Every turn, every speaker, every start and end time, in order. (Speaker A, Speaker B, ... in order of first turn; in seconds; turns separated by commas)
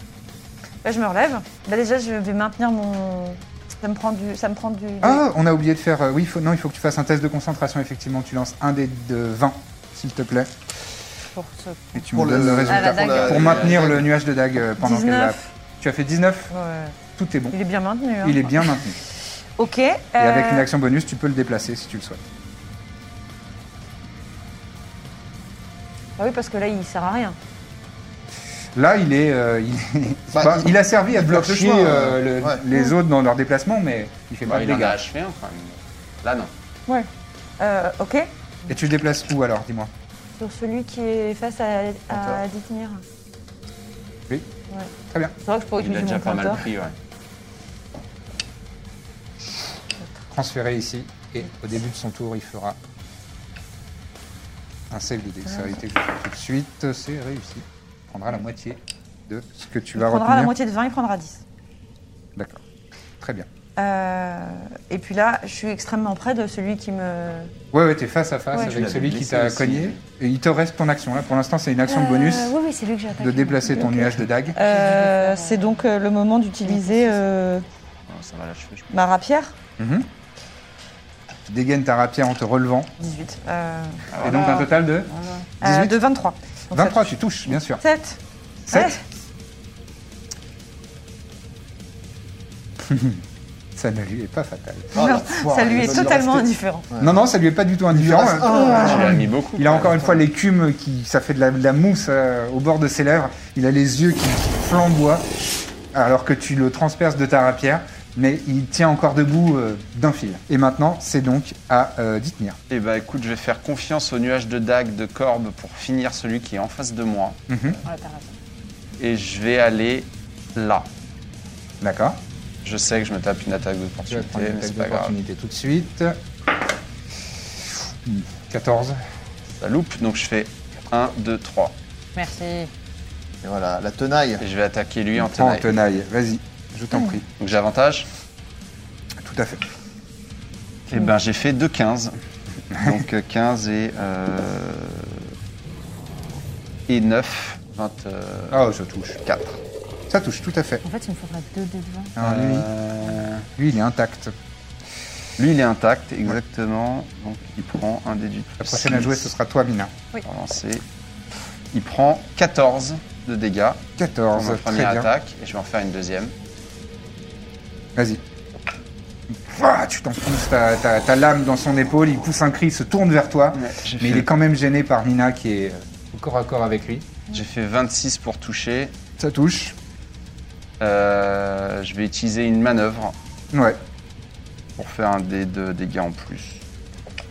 Speaker A: 0.8-5.2, Speaker B: 5.0-10.5, Speaker C: 11.3-12.0, Speaker B: 11.9-16.5, Speaker D: 12.1-14.1, Speaker C: 12.7-13.3, Speaker E: 13.1-14.0, Speaker A: 14.8-15.3, Speaker C: 14.8-15.3, Speaker A: 16.5-17.0, Speaker B: 17.1-17.6, Speaker A: 17.5-18.8, Speaker B: 18.2-19.0, Speaker A: 19.6-20.7, Speaker B: 20.2-22.2, Speaker A: 26.2-27.4, Speaker B: 28.7-35.0, Speaker D: 30.3-32.6, Speaker E: 34.4-36.5, Speaker A: 37.6-38.3, Speaker B: 38.7-39.9, Speaker A: 40.4-43.0, Speaker D: 42.1-42.4, Speaker A: 45.4-46.6, Speaker E: 45.8-46.9, Speaker B: 50.3-52.8, Speaker B: 54.9-60.5, Speaker A: 59.9-61.4, Speaker B: 62.4-62.6, Speaker B: 63.2-63.5, Speaker A: 63.8-67.5, Speaker B: 67.7-72.5, Speaker A: 68.5-68.8, Speaker E: 68.5-70.0, Speaker C: 71.9-75.8, Speaker B: 73.2-74.5, Speaker A: 74.5-77.6, Speaker C: 76.6-77.2, Speaker E: 78.1-78.9, Speaker A: 78.9-79.5, Speaker B: 79.8-80.0, Speaker B: 81.5-82.9, Speaker A: 83.0-84.1, Speaker B: 84.2-86.0, Speaker C: 84.2-85.5, Speaker A: 85.6-87.2, Speaker B: 86.7-87.8, Speaker A: 87.8-88.2, Speaker B: 88.7-88.9, Speaker A: 88.7-89.0, Speaker B: 92.8-93.2, Speaker B: 93.8-94.9, Speaker D: 94.9-97.2, Speaker A: 94.9-96.9, Speaker B: 97.0-105.2, Speaker D: 97.9-99.2, Speaker E: 98.8-100.0, Speaker D: 99.8-100.1, Speaker B: 105.9-112.6, Speaker E: 112.7-117.4, Speaker B: 117.5-117.8, Speaker C: 117.8-118.3, Speaker E: 119.0-120.9, Speaker B: 121.8-122.2, Speaker E: 122.6-125.1, Speaker B: 124.1-126.2, Speaker B: 127.7-129.0, Speaker E: 129.6-131.7, Speaker C: 132.2-132.7, Speaker D: 133.4-134.4, Speaker E: 134.4-135.8, Speaker B: 135.2-137.2, Speaker E: 137.4-138.1, Speaker B: 139.2-139.6, Speaker E: 140.9-142.1, Speaker E: 142.7-145.3, Speaker B: 142.7-143.0, Speaker E: 146.9-148.6, Speaker B: 148.5-149.2, Speaker E: 149.2-149.6, Speaker B: 150.1-150.8, Speaker C: 150.8-152.1, Speaker B: 152.2-152.7, Speaker E: 152.2-153.5, Speaker B: 153.6-154.3, Speaker E: 155.4-159.3, Speaker B: 158.6-159.9, Speaker E: 160.2-160.8, Speaker E: 161.7-163.8, Speaker B: 164.0-165.1, Speaker E: 164.3-166.3, Speaker B: 169.3-177.2, Speaker E: 173.5-174.3, Speaker E: 177.3-178.9, Speaker B: 179.2-179.7, Speaker E: 180.8-183.1, Speaker B: 183.5-183.8, Speaker E: 184.8-186.6